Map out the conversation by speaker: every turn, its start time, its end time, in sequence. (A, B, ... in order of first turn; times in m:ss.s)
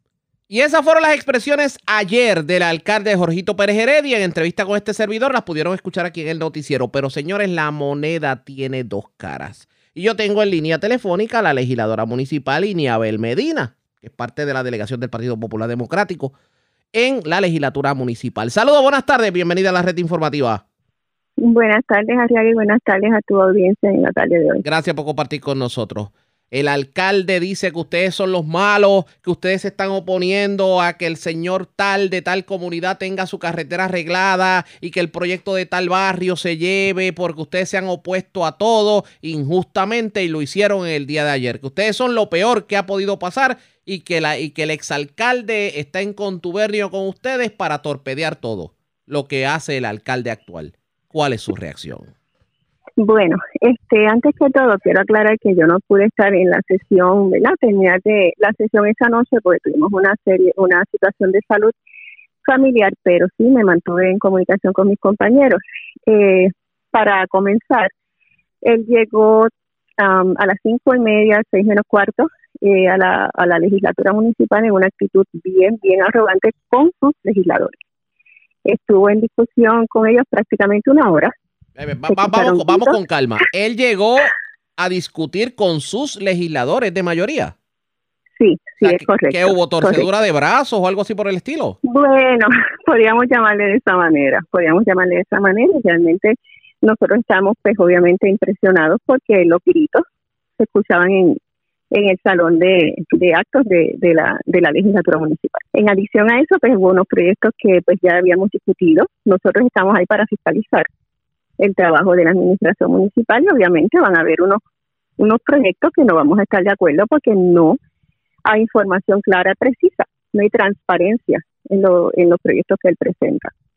0:00.5-0:16.3 A
0:16.9-0:20.6 A
0:21.4-0:24.6 B
0:24.6-0:52.1 A
0:53.0-1:01.7 B
1:02.4-1:07.9 B
1:08.6-1:17.8 B
1:18.6-1:21.3 B
1:21.8-1:27.5 A
1:22.1-1:23.0 B
1:28.4-1:30.1 B
1:28.8-1:31.8 A
1:31.8-1:40.0 B
1:40.6-1:41.4 B
1:41.9-1:50.9 B
1:51.6-1:54.6 B
1:55.2-1:57.8 B
1:58.4-2:03.5 B